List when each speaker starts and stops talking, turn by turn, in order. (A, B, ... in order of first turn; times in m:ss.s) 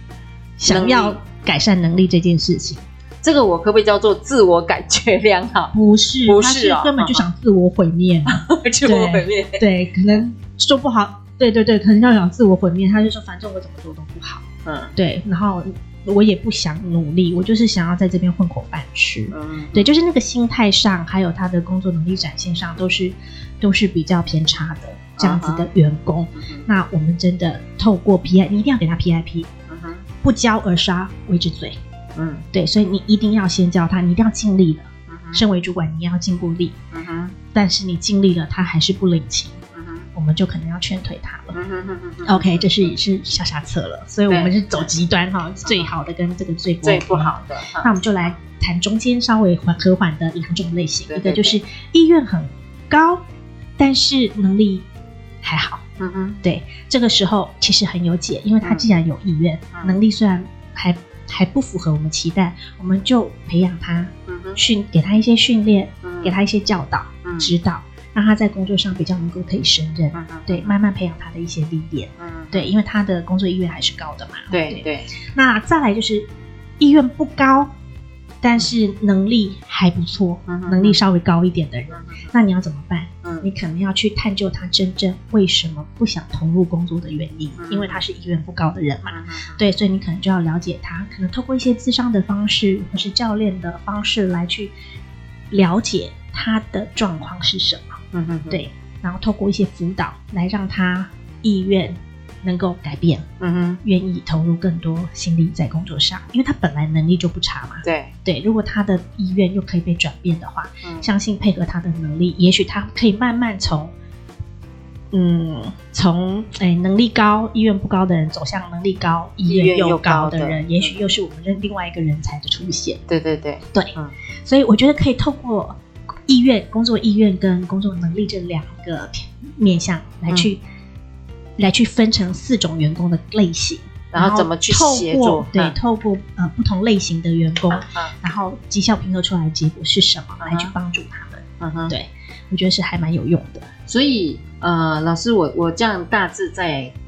0:00.6-0:02.8 A
0:00.6-0:01.2 B
0:03.2-0:05.7 B
0:05.7-0:14.4 A
0:06.2-0:07.2 B
0:08.3-0:10.2 B
0:14.6-0:14.9 B
0:14.9-0:29.5 A
0:19.3-0:19.9 B
0:25.2-0:25.7 B
0:26.4-0:26.6 B
0:29.7-0:30.0 B
0:30.2-0:31.8 A
0:32.1-0:32.5 B
0:32.5-0:36.8 A
0:35.1-0:35.4 B
0:36.9-0:37.3 B
0:37.5-0:39.6 A
0:39.7-0:40.1 B
0:40.1-0:41.6 A
0:41.5-0:42.7 B
0:42.2-0:53.2 A
0:44.3-0:44.9 B
0:45.6-0:45.9 B
0:46.8-0:47.9 B
0:51.1-0:51.6 B
0:53.8-0:54.8 A
0:55.4-0:55.8 A
0:56.0-0:56.4 B
0:56.4-1:17.7 A
1:04.3-1:04.6 B
1:06.0-1:06.4 B
1:07.2-1:07.6 B
1:10.1-1:10.7 B
1:12.2-1:12.7 B
1:14.5-1:15.1 B
1:18.4-1:34.7 A
1:20.5-1:21.0 B
1:21.9-1:22.3 B
1:23.2-1:23.5 B
1:27.6-1:28.0 B
1:29.1-1:29.6 B
1:35.5-1:38.0 A
1:38.1-1:38.6 B
1:38.5-1:43.2 A
1:43.4-1:43.8 B
1:43.8-1:53.9 A
1:47.8-1:48.1 B
1:50.8-1:51.1 B
1:55.1-2:03.0 A
1:59.4-2:01.0 B
2:03.1-2:04.1 B
2:04.4-2:10.6 A
2:11.6-2:23.7 A
2:14.1-2:15.8 B
2:17.7-2:18.1 B
2:20.4-2:20.7 B
2:21.6-2:21.9 B
2:23.9-2:26.9 B